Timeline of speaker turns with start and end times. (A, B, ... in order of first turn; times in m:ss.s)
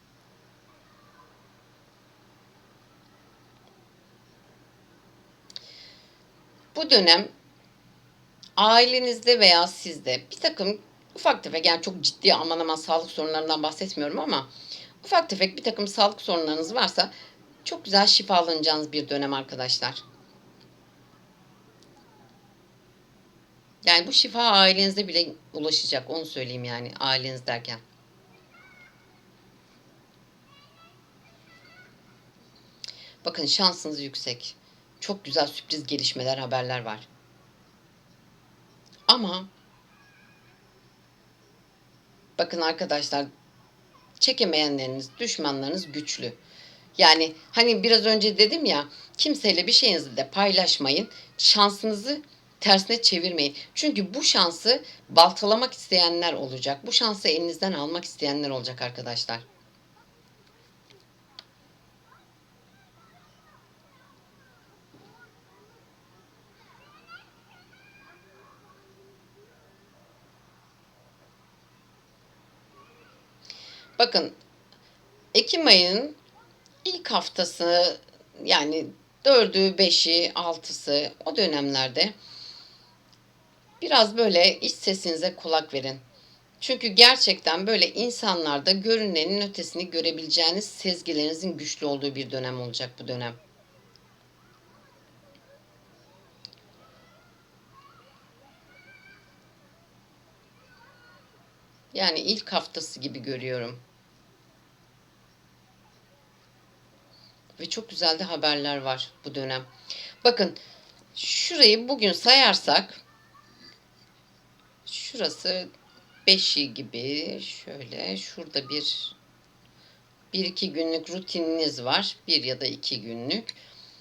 0:06.8-0:07.3 A
0:08.6-0:14.5 A
0:15.0-0:17.1 A
0:17.6-0:20.0 A
0:23.8-0:27.8 A
0:33.2-0:37.1 A
0:39.1-0:39.5 A
0:42.4-0:43.3 A
0:44.2-0:46.4 A
0:47.0-0:59.4 A
1:14.0-1:14.3 A
1:15.3-1:16.2 A
1:16.8-1:22.2 A
1:23.8-1:26.0 A
1:26.6-1:33.4 A
1:41.9-1:43.8 A
1:47.6-1:49.7 A
1:50.2-1:50.6 A
1:51.2-1:53.0 A
1:54.9-1:55.7 A
1:56.3-1:59.2 A
2:00.3-2:03.5 A